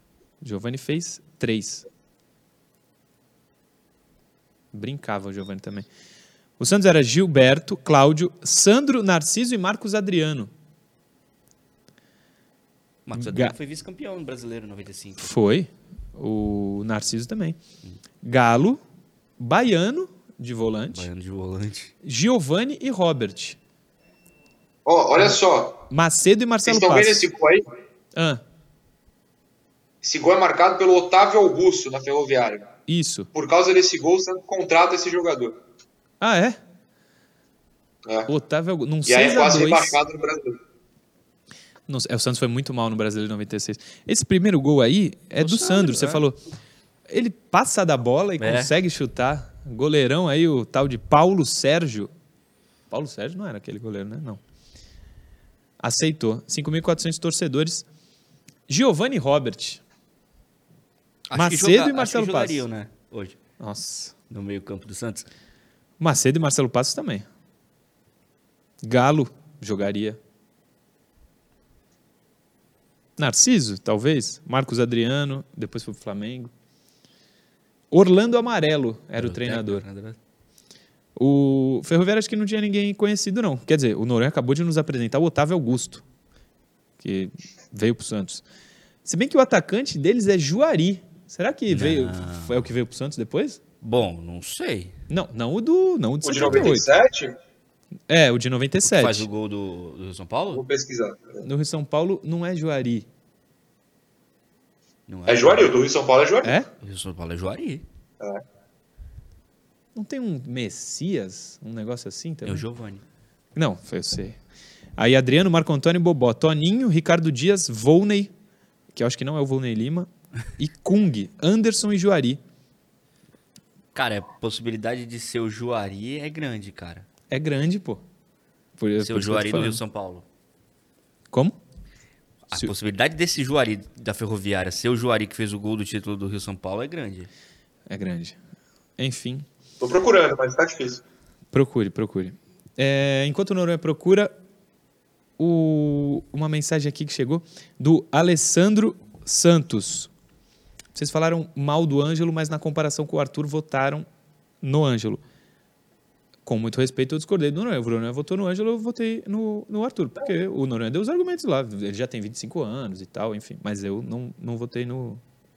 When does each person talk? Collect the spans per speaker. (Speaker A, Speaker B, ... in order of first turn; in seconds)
Speaker A: 0.4-1.9, 4.7-5.9, 6.6-10.5, 13.1-13.5, 15.2-17.6, 18.2-18.8, 19.4-21.1, 22.0-23.6, 25.9-27.3, 28.1-28.4, 32.9-33.3, 36.2-36.6, 38.3-40.0, 41.9-46.4, 47.1-52.1, 52.9-54.4, 55.8-57.9, 58.7-59.8, 61.3-62.7, 63.6-64.1, 66.0-67.2, 68.8-70.2, 73.2-76.5, 77.9-79.8, 81.2-86.0, 87.0-88.4, 89.0-93.6, 95.1-96.9, 98.1-99.3, 101.4-103.1, 106.4-106.7, 109.9-112.7, 113.5-114.4, 115.0-118.3, 118.9-122.4, 127.3-128.0, 128.8-129.8, 131.3-131.6, 137.9-138.4, 139.0-139.5, 141.5-144.3, 145.4-150.1, 150.9-154.1, 154.6-155.2, 156.4-165.2
Speaker B: 13.1-15.3, 20.9-21.9, 45.4-46.2, 48.4-48.7, 61.3-63.4, 64.3-65.3, 79.2-80.2, 91.7-92.7, 93.8-94.9, 98.8-100.6, 105.1-105.7, 106.8-107.8, 112.4-113.0, 123.9-127.0, 129.0-130.2, 132.5-137.3
Speaker C: 24.9-25.8, 26.6-27.6, 30.0-32.7, 33.3-35.6, 39.0-40.6, 96.2-97.3, 100.5-101.4, 105.3-106.5, 139.8-141.0